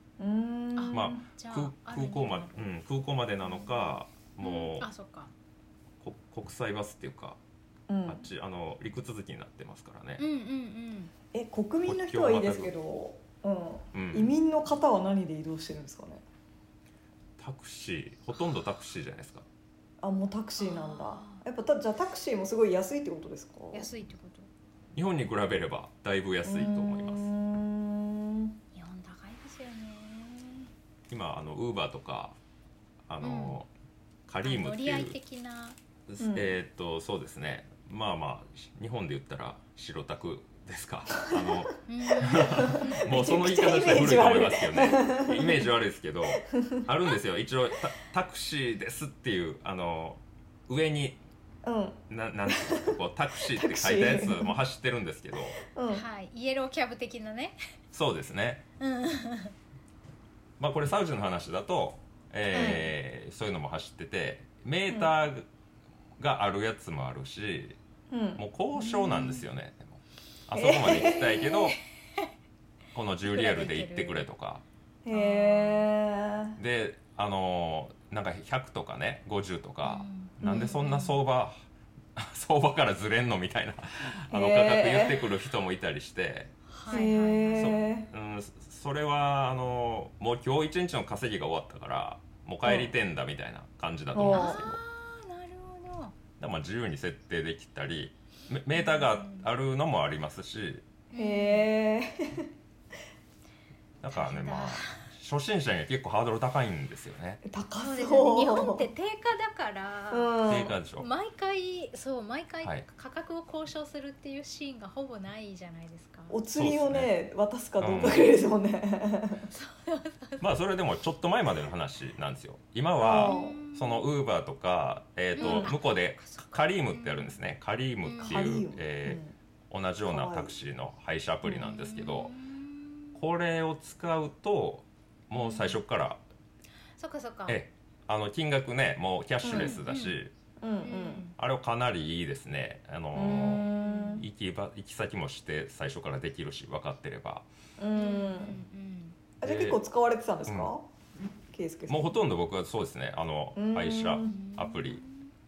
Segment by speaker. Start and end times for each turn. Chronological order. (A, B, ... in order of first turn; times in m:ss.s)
0:00.2-0:01.2 A
0:00.8-0:02.6 B
0:00.9-0:04.9 C
0:03.4-0:05.3 B
0:06.0-0:07.4 C
0:07.9-0:08.2 A
0:08.0-0:10.2 C
0:10.2-0:11.1 B
0:11.3-0:16.2 A
0:11.8-0:12.7 C
0:13.9-0:14.3 C
0:17.4-0:19.4 C
0:20.0-0:23.9 A
0:20.6-0:21.4 B
0:23.7-0:24.5 B
0:24.9-0:27.3 C
0:26.4-0:28.6 A
0:28.7-0:30.7 B
0:31.1-0:32.4 C
0:33.1-0:33.7 C
0:33.2-0:33.6 B
0:34.3-0:35.2 C
0:34.4-0:35.8 B
0:36.1-0:51.2 C
0:36.2-0:36.5 A
0:41.9-0:43.2 B
0:42.3-0:45.7 A
0:46.3-0:46.8 A
0:51.6-0:54.6 A
0:52.1-0:55.6 C
0:55.6-0:56.0 A
0:55.9-0:57.6 B
0:57.9-0:58.6 C
0:58.8-0:59.5 B
1:00.6-1:05.4 C
1:02.5-1:02.9 B
1:02.5-1:02.8 A
1:06.2-1:07.8 C
1:08.1-1:08.4 A
1:08.4-1:11.8 C
1:08.7-1:09.4 B
1:10.5-1:11.6 A
1:12.9-1:14.6 C
1:13.2-1:14.3 B
1:15.0-1:16.6 A
1:15.1-1:15.9 B
1:16.6-1:21.6 C
1:19.8-1:21.2 B
1:20.4-1:20.7 A
1:22.2-1:26.5 C
1:24.3-1:25.3 A
1:26.7-1:27.8 B
1:26.9-1:28.1 A
1:27.6-1:34.8 C
1:32.6-1:32.9 A
1:34.1-1:34.6 A
1:34.2-1:36.1 B
1:36.4-1:40.8 C
1:38.7-1:39.5 B
1:41.1-1:41.7 B
1:41.2-1:42.5 A
1:44.0-1:47.4 C
1:44.1-1:45.0 B
1:47.4-1:48.8 A
1:47.7-1:50.3 B
1:50.1-1:50.8 A
1:50.5-1:51.1 C
1:50.9-1:56.4 B
1:56.3-1:59.5 A
1:56.5-1:57.1 C
1:57.8-1:58.2 C
1:59.5-2:00.4 B
2:00.4-2:12.3 C
2:03.0-2:03.6 A
2:03.2-2:04.0 B
2:05.4-2:07.4 B
2:05.4-2:05.7 A
2:08.0-2:08.4 B
2:08.2-2:09.3 A
2:10.1-2:10.5 A
2:11.4-2:13.1 B
2:13.1-2:16.2 C
2:15.3-2:15.8 B
2:17.0-2:17.6 B
2:17.5-2:20.3 C
2:19.4-2:19.8 A
2:19.5-2:20.2 B
2:20.6-2:21.3 A
2:20.8-2:21.3 B
2:21.4-2:27.4 C
2:23.1-2:24.2 A
2:23.7-2:24.2 B
2:27.8-2:28.6 A
2:27.9-2:29.2 B
2:29.4-2:30.9 A
2:29.4-2:29.8 C
2:30.4-2:30.7 C
2:31.5-2:32.1 A
2:31.9-2:35.0 C
2:33.6-2:34.3 A
2:34.2-2:35.3 B